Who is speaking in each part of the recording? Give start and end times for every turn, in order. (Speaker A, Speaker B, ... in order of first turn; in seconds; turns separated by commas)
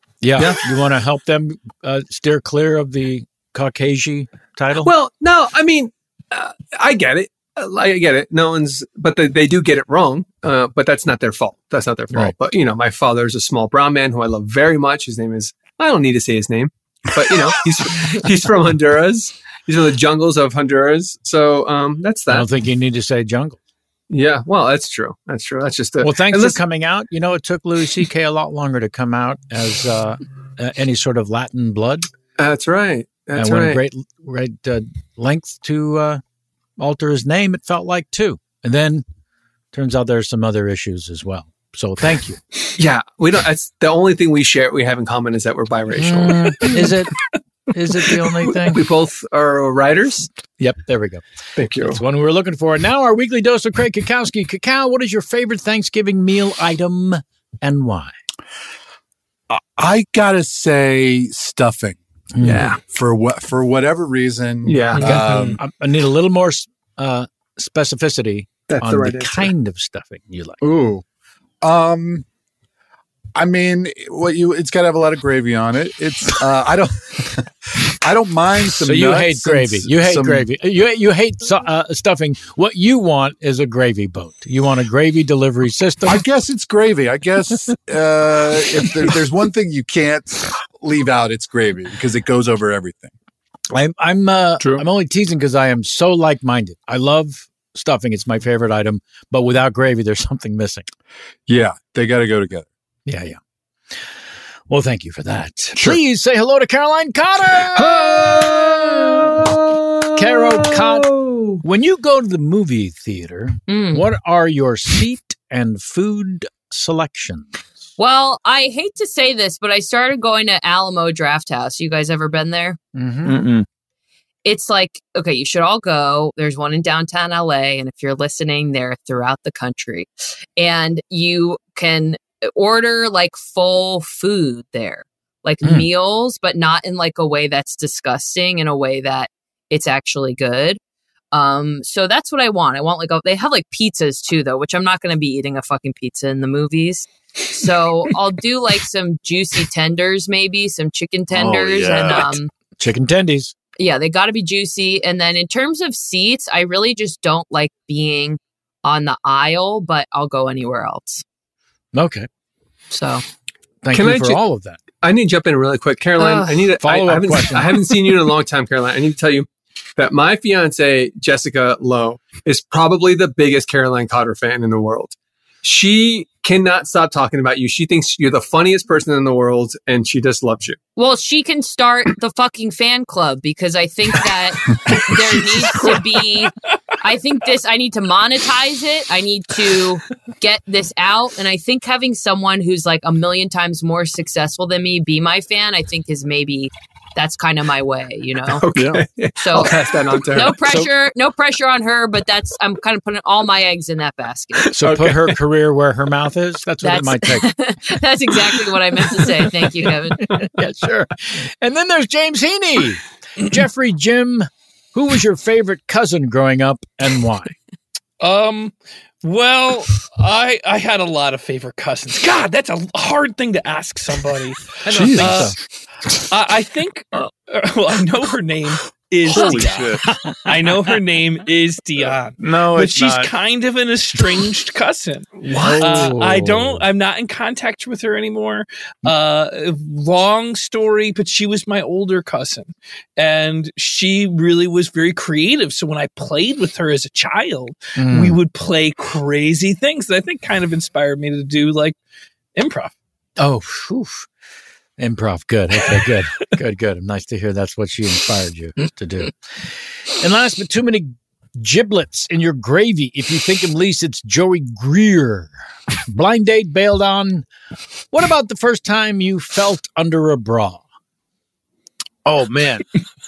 Speaker A: 0.2-4.9, Speaker B: 4.8-22.5, Speaker A: 22.3-23.6, Speaker B: 24.1-26.6, Speaker A: 26.0-32.1, Speaker B: 32.4-33.8, Speaker A: 33.4-36.2, Speaker A: 36.8-39.0, Speaker A: 39.7-42.4, Speaker B: 42.8-46.9, Speaker A: 46.0-47.1, Speaker A: 47.7-48.9, Speaker B: 48.1-50.3, Speaker A: 50.6-51.2, Speaker B: 51.6-52.0, Speaker A: 51.8-58.1, Speaker C: 59.5-62.0, Speaker A: 62.4-62.7, Speaker B: 62.4-62.8, Speaker C: 62.7-65.6, Speaker B: 64.7-65.6, Speaker A: 65.0-70.6, Speaker B: 68.7-69.5, Speaker C: 70.6-71.0, Speaker C: 71.6-72.2, Speaker C: 73.3-76.9, Speaker C: 77.8-80.5, Speaker A: 78.8-86.2, Speaker C: 86.1-93.1, Speaker A: 93.7-100.9, Speaker C: 101.5-102.7, Speaker A: 103.1-103.4, Speaker A: 104.7-109.5, Speaker A: 110.2-117.6, Speaker D: 113.7-114.1, Speaker D: 118.0-122.8, Speaker A: 123.0-123.4, Speaker E: 123.2-123.7, Speaker D: 124.5-140.8, Speaker A: 135.6-135.9, Speaker D: 141.3-152.5, Speaker E: 151.3-152.2, Speaker A: 152.8-153.5, Speaker D: 153.8-161.2, Speaker A: 161.9-162.3, Speaker D: 162.9-163.2, Speaker A: 163.8-164.8, Speaker B: 163.9-164.4, Speaker B: 165.0-180.8, Speaker D: 166.2-166.7, Speaker A: 166.8-168.2, Speaker D: 181.0-198.7, Speaker B: 198.5-200.7, Speaker E: 198.7-199.0, Speaker D: 199.4-204.8, Speaker A: 204.7-207.5, Speaker D: 206.8-210.2, Speaker A: 210.3-217.5, Speaker F: 218.2-225.6, Speaker A: 224.9-225.6, Speaker E: 224.9-225.4, Speaker F: 226.3-252.0, Speaker E: 229.3-230.0, Speaker E: 232.4-233.3, Speaker A: 235.5-236.8, Speaker E: 235.6-236.2, Speaker A: 248.0-248.4, Speaker F: 252.6-252.9, Speaker A: 253.4-254.3, Speaker A: 255.0-265.5, Speaker A: 266.1-267.5, Speaker A: 268.1-270.8, Speaker E: 272.3-272.8